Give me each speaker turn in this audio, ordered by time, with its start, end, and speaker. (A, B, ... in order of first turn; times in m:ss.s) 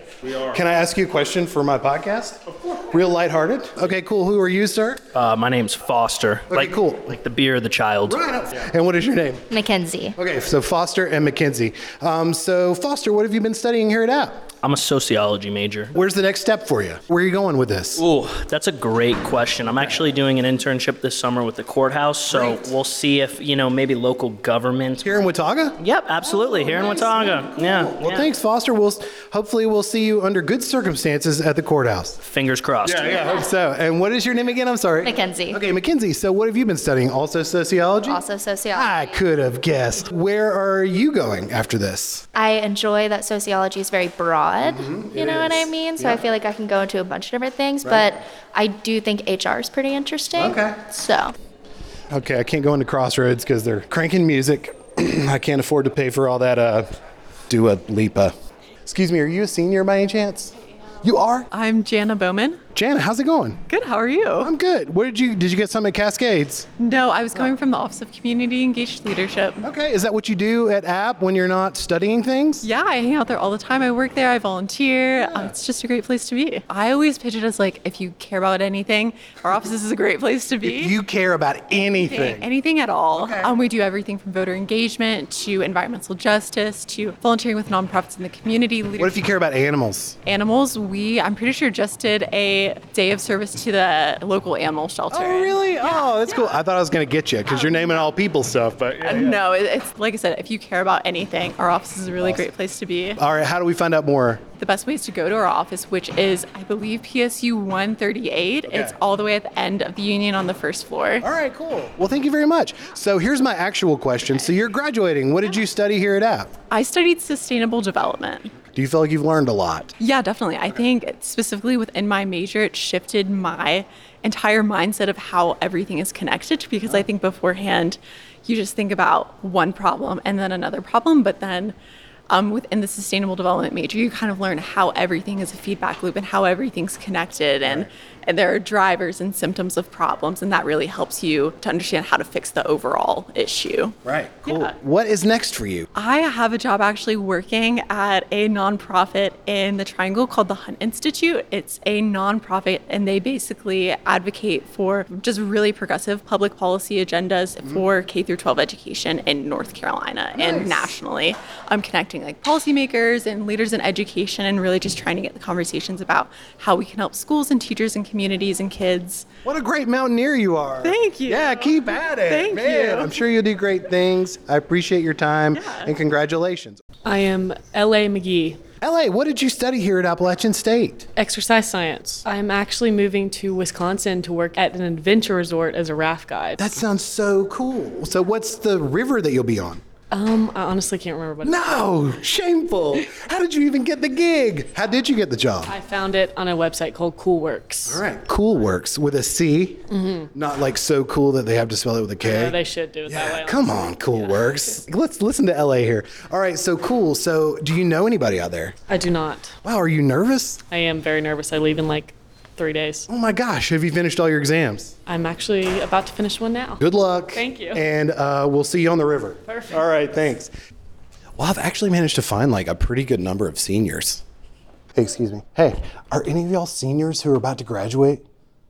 0:00.4-0:05.0 A
0:05.1-0:08.2 B
0:06.5-0:07.1 A
0:08.1-0:09.5 A
0:09.5-0:10.2 C
0:10.2-0:14.4 A
0:14.6-0:15.9 B
0:15.9-0:18.0 A
0:18.0-0:25.0 B
0:22.3-0:22.6 A
0:25.0-0:25.8 A
0:25.8-0:28.3 B
0:26.7-0:32.2 A
0:32.2-0:33.4 B
0:32.8-0:42.3 A
0:35.0-0:35.6 C
0:38.1-0:39.2 C
0:42.4-0:51.3 C
0:44.6-0:46.3 A
0:47.8-0:48.1 A
0:50.3-0:50.8 A
0:52.1-0:56.9 A
0:57.5-0:58.3 A
0:58.8-1:01.5 A
1:01.5-1:02.6 D
1:02.7-1:03.6 A
1:03.7-1:04.5 D
1:04.4-1:06.7 A
1:06.8-1:09.6 D
1:09.6-1:12.7 A
1:12.6-1:20.9 D
1:15.2-1:15.5 A
1:20.6-1:22.5 A
1:21.7-1:29.2 D
1:23.1-1:23.5 A
1:29.0-1:30.2 A
1:30.2-1:36.5 D
1:35.1-1:39.4 A
1:37.5-1:38.0 D
1:39.0-1:43.2 D
1:43.2-1:44.4 A
1:44.6-1:51.3 D
1:48.7-1:49.0 A
1:51.2-1:56.5 A
1:56.7-1:58.5 D
1:58.6-2:00.0 A
2:00.0-2:11.8 D
2:12.3-2:24.0 D
2:17.6-2:17.9 A
2:24.0-2:25.9 A
2:24.5-2:24.7 D
2:26.0-2:49.3 D
2:40.4-2:40.9 A
2:49.4-2:56.8 A
2:50.8-2:53.1 D
2:55.5-2:55.9 D
2:57.0-2:58.6 E
2:58.8-3:01.1 A
3:01.2-3:06.7 E
3:06.6-3:09.8 A
3:10.1-3:12.0 E
3:11.4-3:15.7 A
3:15.6-3:18.0 E
3:17.8-3:28.8 A
3:20.0-3:20.3 E
3:22.2-3:24.7 E
3:28.9-3:29.6 E
3:29.6-3:30.6 A
3:30.7-3:33.1 E
3:33.1-3:34.9 A
3:35.1-3:36.8 E
3:36.8-3:40.5 A
3:37.3-3:37.9 E
3:39.5-3:39.9 E
3:41.4-3:44.2 A
3:45.0-3:48.2 A